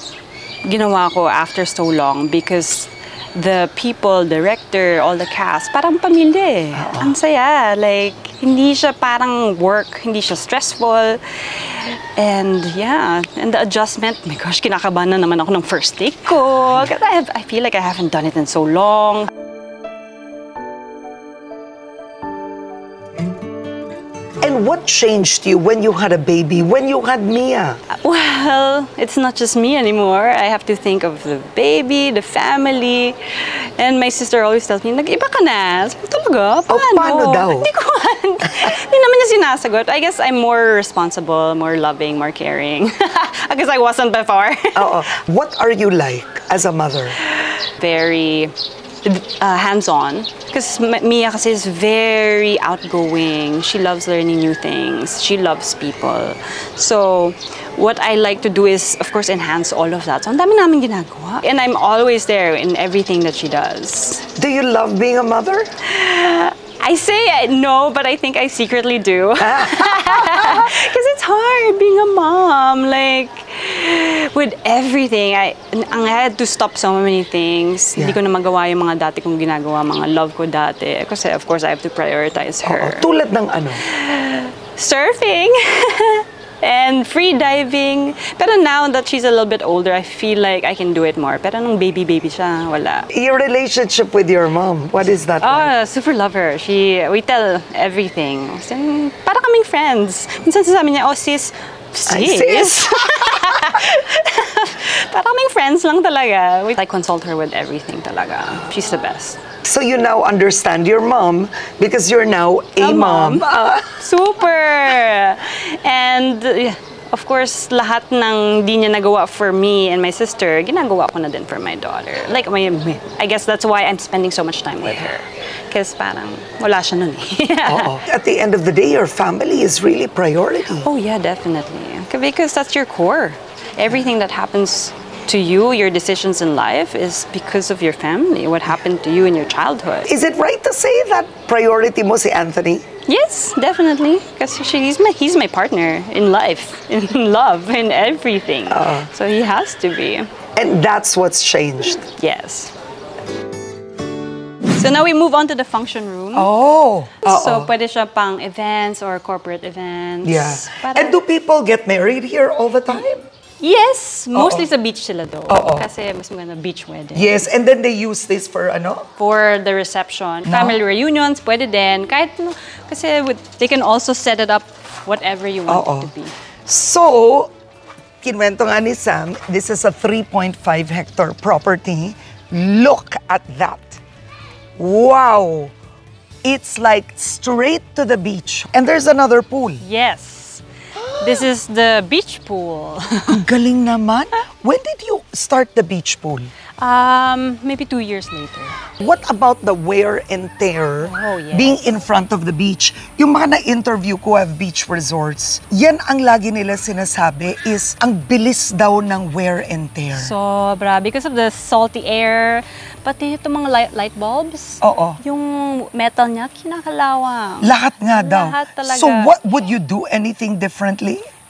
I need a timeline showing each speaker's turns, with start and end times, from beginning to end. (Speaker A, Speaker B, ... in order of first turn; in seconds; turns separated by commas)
Speaker A: 0.7-19.3, Speaker B: 6.7-7.1, Speaker B: 24.4-27.8, Speaker A: 27.9-45.0, Speaker B: 36.7-37.7, Speaker B: 44.7-47.2, Speaker A: 47.6-64.3, Speaker B: 64.3-65.7, Speaker A: 65.8-83.1, Speaker B: 69.4-70.7, Speaker B: 82.6-83.8, Speaker A: 83.8-93.1, Speaker B: 93.1-95.7, Speaker A: 95.4-109.4, Speaker B: 102.1-103.5, Speaker B: 109.6-114.0, Speaker A: 112.8-128.0, Speaker B: 127.7-130.9, Speaker A: 130.8-140.1, Speaker B: 140.1-142.8, Speaker A: 143.1-150.3, Speaker B: 148.7-149.1, Speaker B: 150.6-152.1, Speaker A: 152.1-152.7, Speaker A: 154.7-156.5, Speaker B: 156.3-157.7, Speaker A: 157.2-161.2, Speaker B: 160.2-163.2, Speaker A: 163.6-167.5, Speaker B: 164.3-164.7, Speaker B: 165.5-165.9, Speaker B: 167.1-169.1, Speaker A: 169.2-176.3, Speaker B: 170.4-170.8, Speaker B: 175.7-176.1, Speaker B: 176.7-177.5, Speaker B: 178.2-184.0, Speaker B: 184.8-185.7, Speaker B: 186.4-189.8, Speaker A: 189.8-190.6, Speaker B: 191.0-191.4, Speaker A: 191.2-193.5, Speaker B: 193.3-196.5, Speaker A: 196.8-198.7, Speaker B: 199.0-210.3, Speaker A: 201.0-201.8, Speaker A: 210.1-219.3, Speaker B: 214.8-215.2, Speaker B: 217.6-221.2